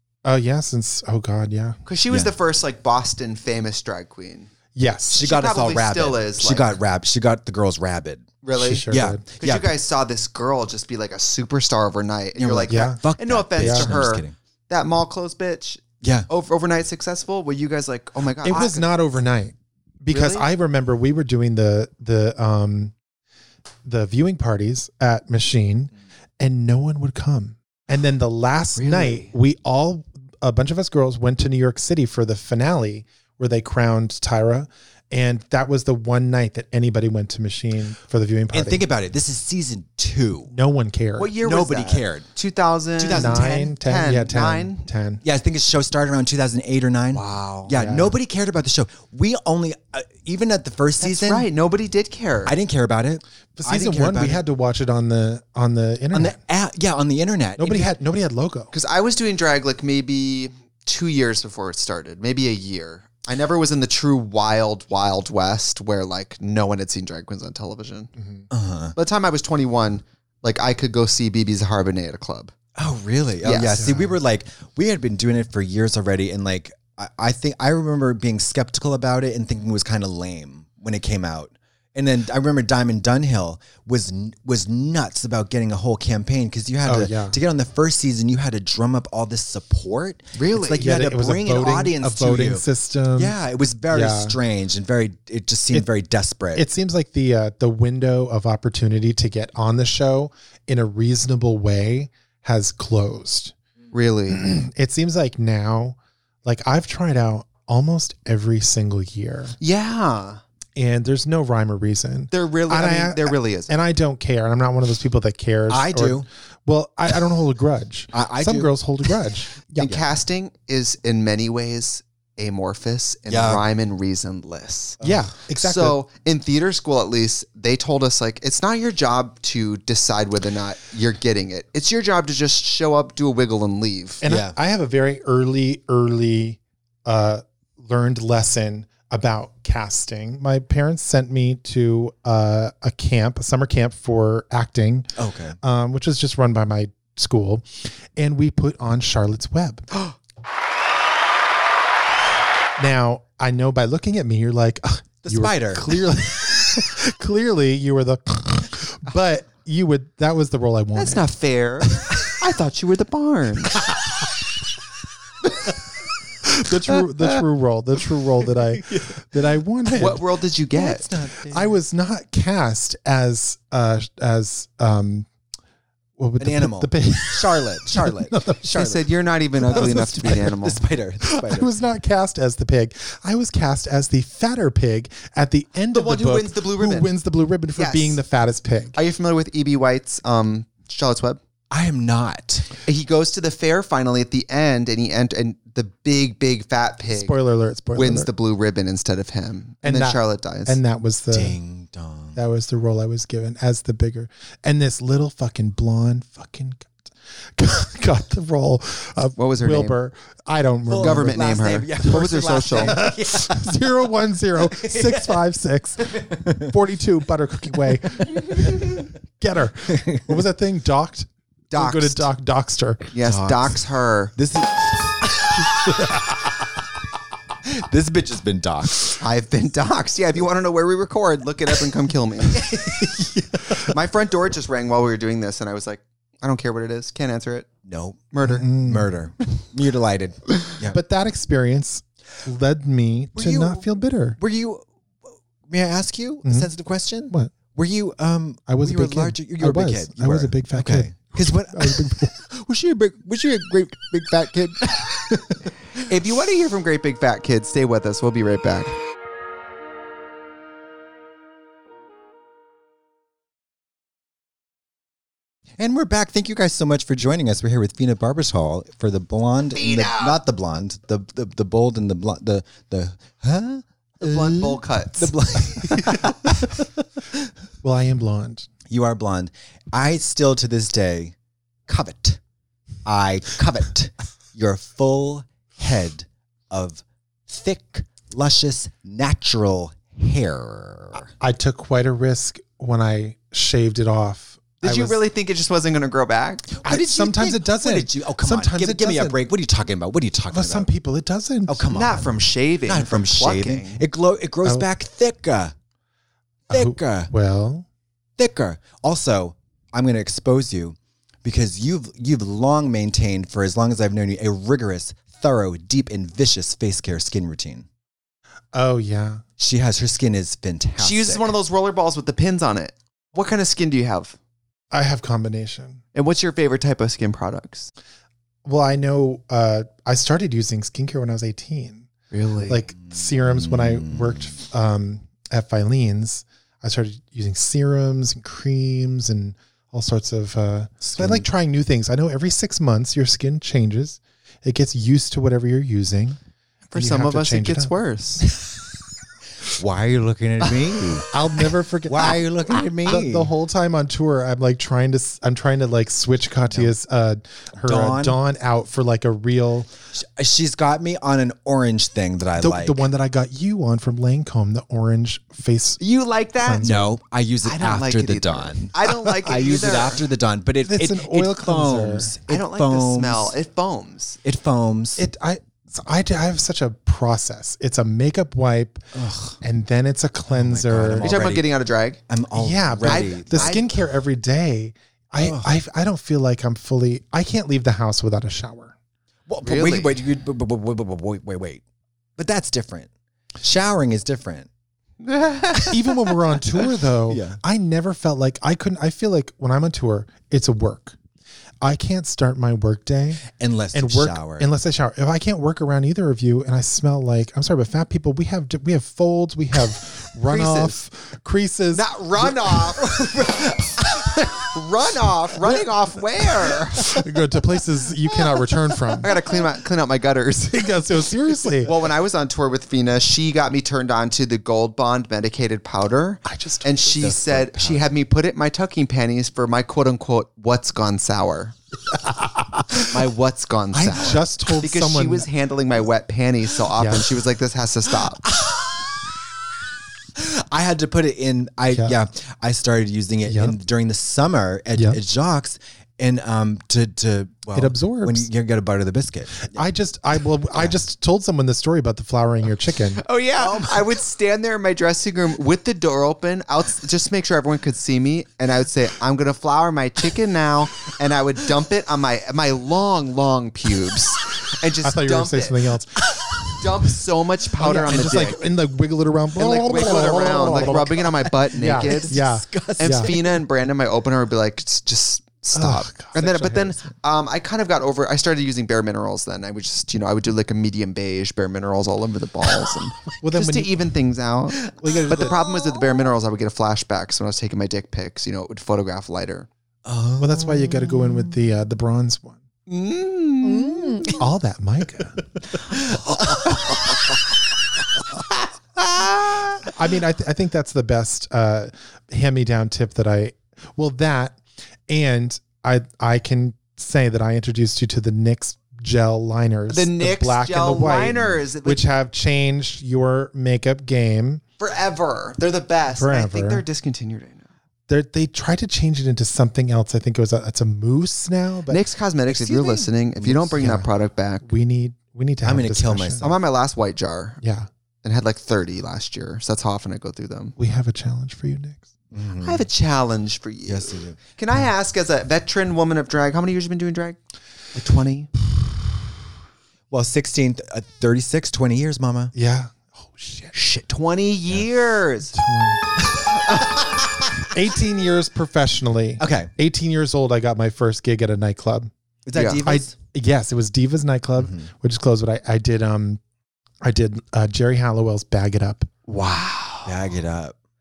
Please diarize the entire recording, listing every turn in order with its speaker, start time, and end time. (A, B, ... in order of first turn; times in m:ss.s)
0:00.2-0:01.8 A
0:01.8-0:04.5 B
0:02.1-0:02.3 C
0:04.7-0:05.2 A
0:05.1-0:06.8 B
0:05.1-0:08.3 C
0:08.4-0:18.9 B
0:08.6-0:09.2 A
0:08.9-0:09.7 C
0:12.4-0:14.3 C
0:12.7-0:13.0 A
0:13.6-0:14.0 A
0:16.0-0:16.3 C
0:18.4-0:22.9 A
0:20.1-0:20.4 B
0:23.8-0:38.8 A
0:28.8-0:29.3 B
0:38.5-0:40.5 C
0:40.5-0:41.3 A
0:41.2-0:44.9 B
0:41.3-0:42.2 C
0:43.0-0:43.7 C
0:43.1-0:45.2 A
0:45.2-0:51.5 C
0:47.1-0:47.7 B
0:47.7-0:48.1 A
0:51.0-0:52.5 B
0:52.4-0:54.4 C
0:53.6-0:56.4 A
0:56.1-0:57.9 C
0:57.6-0:58.7 A
0:58.7-1:08.1 B
1:08.2-1:08.4 A
1:08.5-1:08.9 C
1:09.0-1:12.5 B
1:12.8-1:32.6 C
1:13.4-1:14.0 B
1:13.8-1:14.1 A
1:26.8-1:27.4 A
1:30.4-1:30.8 B
1:30.8-1:33.4 A
1:33.1-1:36.6 C
1:33.9-1:34.4 A
1:36.5-1:43.5 A
1:43.9-1:44.4 B
1:44.3-1:49.5 A
1:49.6-1:50.4 B
1:50.8-1:59.9 A
1:52.3-1:53.7 B
1:55.7-1:56.3 C
1:58.1-1:59.1 C
1:59.8-2:14.2 B
1:59.8-2:00.1 C
2:03.3-2:03.6 C
2:05.0-2:06.0 A
2:14.2-2:29.8 A
2:14.2-2:14.6 C
2:25.2-2:25.6 C
2:32.8-2:41.2 A
2:35.2-2:36.0 C
2:41.0-2:43.8 B
2:46.4-2:50.2 A
2:48.8-2:49.2 C
2:50.0-2:51.1 B
2:50.7-2:51.8 C
2:51.5-2:55.3 A
2:56.2-2:58.8 A
2:56.4-2:59.0 C
2:58.7-3:00.8 B
2:59.6-3:01.7 C
3:01.2-3:09.0 A
3:05.9-3:07.1 B
3:07.8-3:08.2 B
3:08.9-3:11.4 B
3:11.7-3:12.7 C
3:12.8-3:17.4 B
3:17.1-3:18.3 A
3:17.9-3:20.8 B
3:19.8-3:21.6 A
3:21.3-3:22.4 C
3:22.3-3:31.4 A
3:29.4-3:30.0 B
3:30.8-3:33.8 C
3:31.0-3:33.0 B
3:32.8-3:43.1 A
3:34.6-3:35.4 C
3:36.0-3:36.7 C
3:39.9-3:40.3 C
3:41.7-3:42.3 B
3:43.1-3:44.3 B
3:43.2-3:43.8 C
3:44.4-3:46.2 C
3:47.6-3:49.2 C
3:49.2-3:52.8 B
3:52.5-3:53.8 C
3:53.8-3:57.7 B
3:57.8-4:01.0 C
3:58.3-3:58.7 B
3:58.4-3:59.1 A
4:00.9-4:04.4 A
4:03.3-4:03.8 C
4:04.4-4:16.0 C
4:06.4-4:06.7 A
4:08.7-4:12.3 A
4:16.0-4:19.0 B
4:25.8-4:36.8 C
4:29.7-4:30.4 B
4:34.2-4:36.2 B
4:37.8-4:38.7 A
4:38.9-4:41.3 C
4:41.9-4:42.4 C
4:43.0-4:51.3 C
4:51.4-4:55.2 A
4:54.8-4:56.8 B
4:56.8-5:00.9 C
4:56.8-4:59.4 A
5:00.5-5:02.0 A
5:01.7-5:05.7 C
5:01.9-5:04.0 B
5:06.7-5:07.8 A
5:06.7-5:07.3 C
5:08.4-5:17.8 C
5:18.7-5:19.4 A
5:19.6-5:21.5 C
5:21.0-5:24.4 B
5:24.9-5:26.0 A
5:26.1-5:27.9 B
5:28.6-5:32.1 A
5:32.3-5:32.8 B
5:32.7-5:46.4 A
5:33.0-5:34.6 C
5:41.0-5:41.5 C
5:46.9-5:48.4 B
5:46.9-5:47.9 A
5:49.7-5:51.2 C
5:51.3-5:59.9 A
5:52.1-5:53.5 C
5:57.7-5:58.4 C
6:00.1-6:03.0 C
6:02.6-6:06.0 A
6:06.0-6:07.0 B
6:06.6-6:07.1 A
6:06.8-6:13.5 C
6:07.6-6:10.2 B
6:10.8-6:12.3 A
6:12.5-6:14.4 B
6:14.4-6:15.2 C
6:15.2-6:19.0 A
6:19.1-6:19.6 C
6:19.6-6:21.3 A
6:20.5-6:21.7 C
6:21.2-6:22.2 B
6:22.3-6:23.8 C
6:22.6-6:28.9 A
6:23.0-6:23.9 B
6:25.4-6:25.7 C
6:29.5-6:31.8 C
6:29.6-6:30.2 B
6:32.4-6:33.1 C
6:33.6-6:34.7 C
6:35.2-6:35.9 B
6:35.9-6:41.2 A
6:37.3-6:37.6 C
6:41.8-6:52.5 A
6:43.5-6:44.7 C
6:50.4-6:51.0 B
6:51.9-6:57.1 B
6:53.0-6:54.0 C
6:57.0-6:59.3 A
6:59.2-7:00.9 B
7:00.7-7:01.9 A
7:01.7-7:11.7 B
7:06.4-7:07.1 A
7:07.2-7:08.0 C
7:12.1-7:13.1 A
7:13.0-7:18.4 B
7:13.9-7:15.5 A
7:17.0-7:17.2 A
7:18.5-7:19.0 C
7:20.4-7:29.8 C
7:23.4-7:23.8 A
7:27.7-7:28.5 A
7:29.7-7:33.2 A
7:33.2-7:45.9 B
7:33.6-7:34.1 C
7:45.0-7:46.3 A
7:46.8-7:48.6 B
7:47.8-7:53.3 A
7:49.6-7:52.4 B
7:49.8-7:53.6 C
7:53.0-8:09.7 B
7:55.7-7:57.1 A
8:03.4-8:04.1 A
8:04.8-8:06.3 C
8:05.0-8:05.5 A
8:10.0-8:11.6 C
8:10.4-8:12.6 A
8:12.9-8:14.4 B
8:13.6-8:14.4 C
8:14.3-8:15.4 A
8:16.1-8:16.6 C
8:16.3-8:17.3 B
8:19.0-8:19.7 B
8:19.9-8:34.6 A
8:29.9-8:32.0 B
8:34.8-8:37.6 B
8:36.2-8:36.8 A
8:38.1-8:42.0 A
8:41.9-8:44.6 B
8:42.5-8:43.1 C
8:43.4-8:44.1 A
8:44.6-8:46.5 A
8:45.6-8:46.5 C
8:46.4-8:47.6 B
8:47.6-8:47.9 A
8:48.2-8:50.7 B
8:50.8-8:52.0 A
8:52.3-8:52.8 C
8:52.6-8:57.4 B
8:53.8-8:54.4 C
8:57.9-8:58.5 B
9:00.1-9:02.5 C
9:02.5-9:03.7 A
9:03.7-9:05.5 B
9:05.5-9:06.2 A
9:06.5-9:07.2 B
9:07.7-9:12.1 A
9:09.4-9:09.7 C
9:12.4-9:13.1 C
9:12.5-9:12.8 B
9:12.8-9:16.4 A
9:14.6-9:14.9 C
9:17.0-9:19.1 A
9:19.3-9:20.2 B
9:20.0-9:20.7 C